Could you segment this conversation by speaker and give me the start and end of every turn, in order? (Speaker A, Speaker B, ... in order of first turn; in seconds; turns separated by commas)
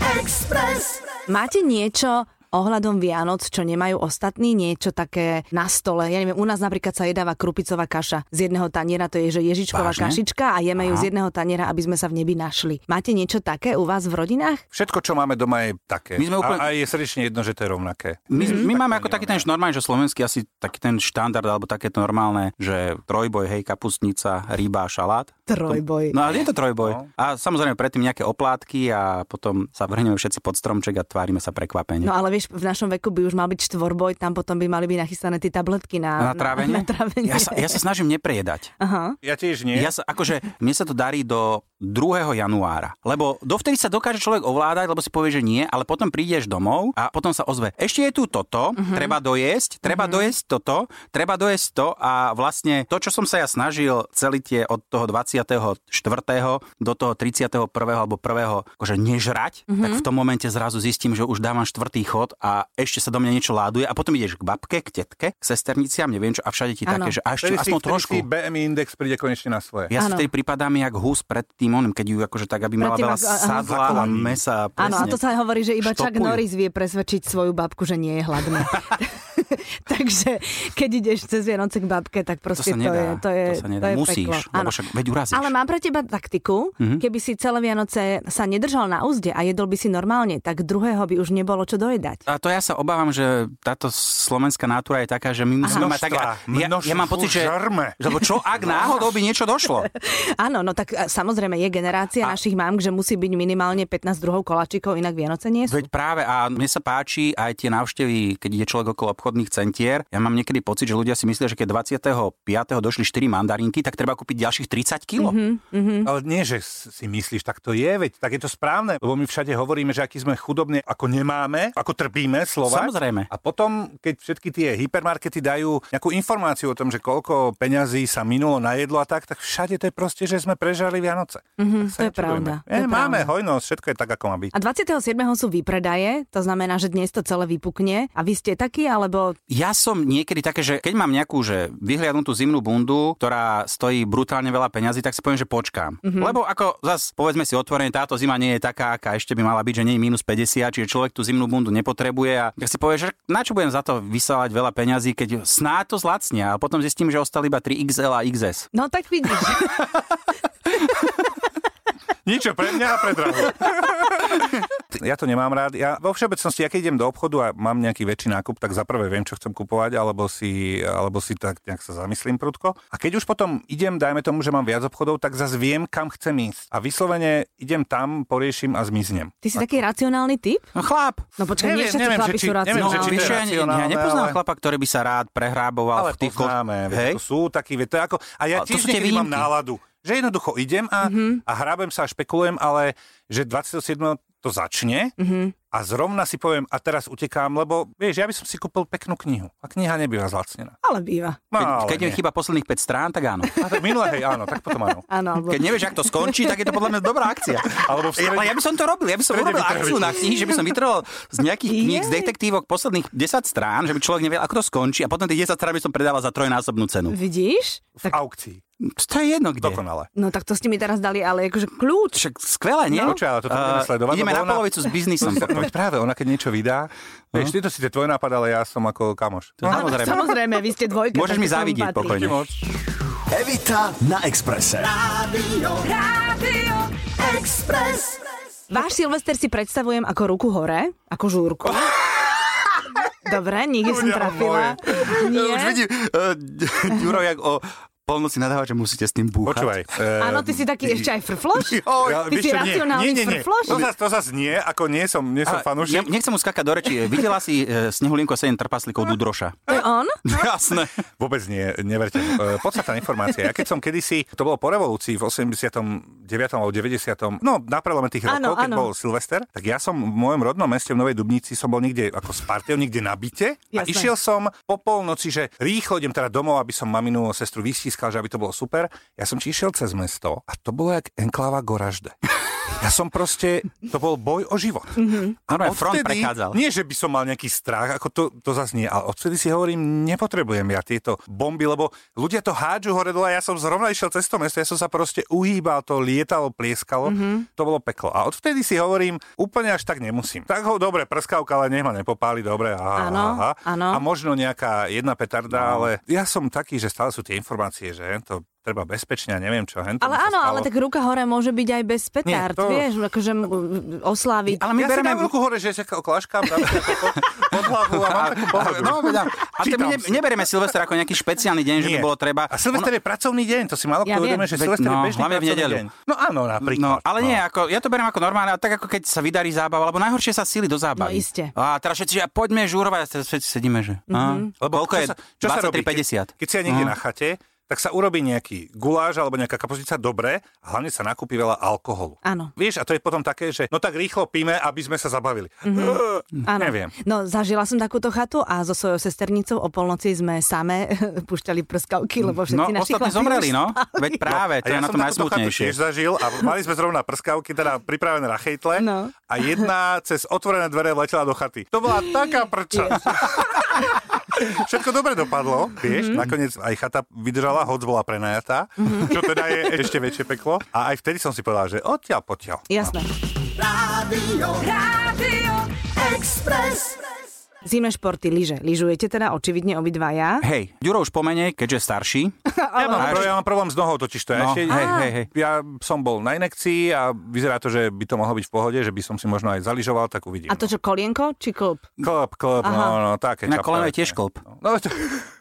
Speaker A: 1.3-14.6, Speaker B: 9.7-10.2, Speaker B: 10.8-11.1, Speaker C: 14.7-19.5, Speaker B: 16.2-16.7, Speaker B: 18.3-32.1, Speaker A: 18.4-18.7, Speaker A: 25.5-26.2, Speaker C: 26.8-27.1, Speaker A: 32.0-37.8, Speaker B: 36.2-38.7, Speaker A: 38.8-39.2, Speaker C: 39.2-39.9, Speaker B: 39.7-68.3, Speaker A: 48.8-49.1, Speaker A: 49.9-50.2, Speaker A: 59.7-60.0, Speaker A: 66.9-67.2, Speaker C: 67.4-69.9, Speaker B: 69.9-75.2, Speaker A: 70.0-70.3, Speaker A: 72.8-74.1, Speaker C: 73.6-75.2, Speaker A: 74.8-84.8, Speaker B: 75.8-76.4, Speaker B: 82.6-85.5, Speaker A: 85.3-92.2, Speaker B: 92.3-99.9, Speaker A: 95.6-95.9, Speaker C: 95.7-98.0, Speaker A: 99.9-105.9, Speaker B: 105.7-115.4, Speaker A: 115.2-116.1, Speaker C: 116.0-134.5, Speaker B: 122.7-123.3, Speaker A: 131.6-133.3, Speaker A: 134.5-139.4, Speaker B: 139.5-158.7, Speaker A: 146.0-146.3, Speaker A: 158.7-159.9, Speaker C: 162.2-179.6, Speaker A: 179.4-180.7, Speaker B: 180.8-181.2, Speaker A: 181.4-183.4, Speaker C: 181.6-184.4, Speaker B: 182.7-187.2, Speaker C: 185.9-195.2, Speaker B: 188.6-189.5, Speaker A: 191.0-191.4, Speaker A: 195.2-195.6, Speaker C: 195.7-200.8, Speaker A: 200.8-201.4, Speaker C: 201.5-202.2, Speaker B: 201.6-203.6, Speaker C: 203.6-205.1, Speaker A: 205.1-206.7, Speaker B: 205.4-217.2, Speaker C: 207.8-208.6, Speaker C: 209.3-210.7, Speaker A: 211.7-212.3, Speaker A: 217.1-218.2, Speaker C: 218.0-218.6, Speaker B: 218.8-219.8, Speaker C: 219.6-220.1, Speaker A: 220.2-222.2, Speaker B: 222.2-225.7, Speaker C: 222.9-230.0, Speaker B: 229.6-230.3, Speaker A: 229.7-232.3, Speaker B: 231.1-232.4, Speaker C: 232.0-232.5, Speaker D: 233.3-235.4, Speaker A: 238.7-242.0, Speaker A: 243.2-245.8, Speaker C: 243.8-244.8, Speaker B: 244.9-249.8, Speaker C: 249.4-251.1, Speaker A: 250.2-253.9, Speaker C: 251.8-256.1, Speaker B: 255.4-261.0, Speaker A: 259.7-260.2, Speaker C: 261.2-282.2, Speaker A: 268.3-268.9, Speaker A: 273.7-274.1, Speaker C: 282.7-310.7, Speaker A: 285.0-285.4, Speaker B: 285.5-286.6, Speaker A: 297.1-297.5, Speaker A: 303.0-304.0, Speaker B: 305.5-305.9, Speaker A: 310.0-314.6, Speaker C: 312.2-312.9, Speaker B: 314.5-315.3, Speaker C: 314.8-320.3, Speaker B: 316.7-322.9, Speaker C: 321.8-327.4, Speaker A: 324.1-324.5, Speaker B: 324.5-325.9, Speaker B: 326.6-336.9, Speaker A: 331.0-331.5, Speaker A: 334.1-334.5, Speaker C: 334.6-346.9, Speaker A: 342.2-342.5, Speaker A: 345.6-354.3, Speaker B: 352.3-355.8, Speaker C: 354.3-373.0, Speaker A: 358.8-359.6, Speaker A: 362.7-363.2, Speaker A: 365.9-366.3, Speaker A: 368.8-369.4, Speaker A: 372.7-373.1, Speaker A: 377.6-380.4, Speaker B: 380.4-382.4, Speaker A: 382.5-383.4, Speaker C: 382.8-390.7, Speaker B: 383.0-383.4, Speaker B: 384.3-385.3, Speaker A: 384.7-385.1, Speaker A: 390.5-391.9, Speaker C: 392.0-395.3, Speaker A: 392.6-393.0, Speaker B: 393.5-394.4